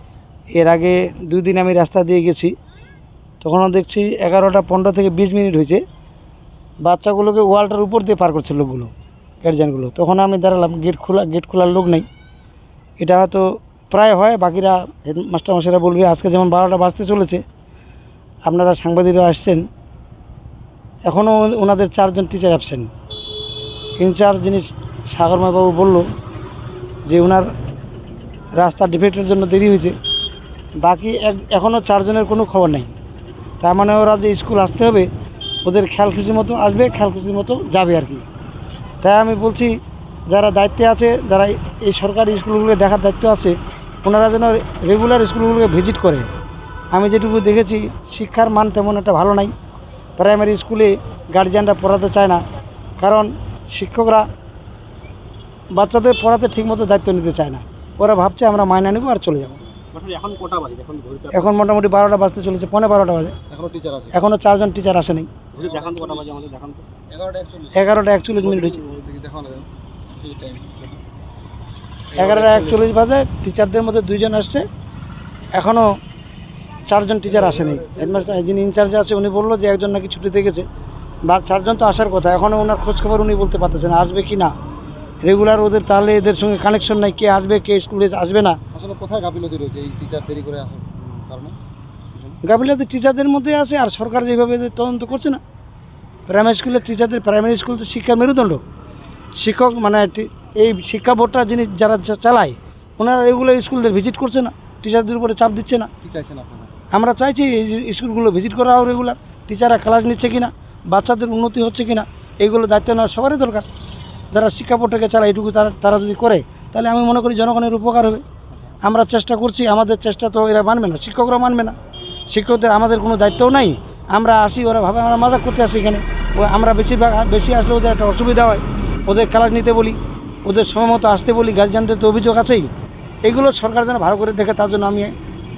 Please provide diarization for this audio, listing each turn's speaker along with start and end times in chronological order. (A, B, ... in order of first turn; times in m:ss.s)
0:00.6-0:02.5 A
0:03.4-0:05.8 A
0:06.8-0:08.9 A
0:09.4-0:12.0 A
0:13.0-0:17.4 A
0:18.5-0:19.6 A
0:21.1-0:22.9 A
0:24.0-0:26.0 A
0:27.1-0:27.4 A
0:28.6-0:29.9 A
0:30.8-0:32.9 A
0:33.6-0:35.1 A
0:35.6-0:38.2 A
0:39.0-0:39.7 A
0:40.3-0:43.5 A
0:44.0-0:46.3 A
0:46.9-0:49.5 A
0:50.2-0:52.4 A
0:53.0-0:54.2 A
0:55.8-0:59.6 A
0:59.9-1:01.6 B
1:01.3-1:03.3 A
1:03.5-1:04.1 C
1:04.1-1:05.3 A
1:05.5-1:06.8 B
1:07.7-1:08.8 A
1:08.6-1:09.7 C
1:12.1-1:14.6 A
1:15.6-1:15.8 A
1:16.9-1:20.6 A
1:21.3-1:24.5 A
1:25.2-1:28.6 A
1:28.7-1:31.6 C
1:32.4-1:35.4 A
1:36.3-1:38.6 A
1:39.4-1:45.9 A
1:46.0-1:46.7 C
1:46.9-1:53.6 A
1:54.3-1:58.2 A
1:58.8-2:01.7 A
2:02.3-2:12.7 A
2:13.2-2:15.1 A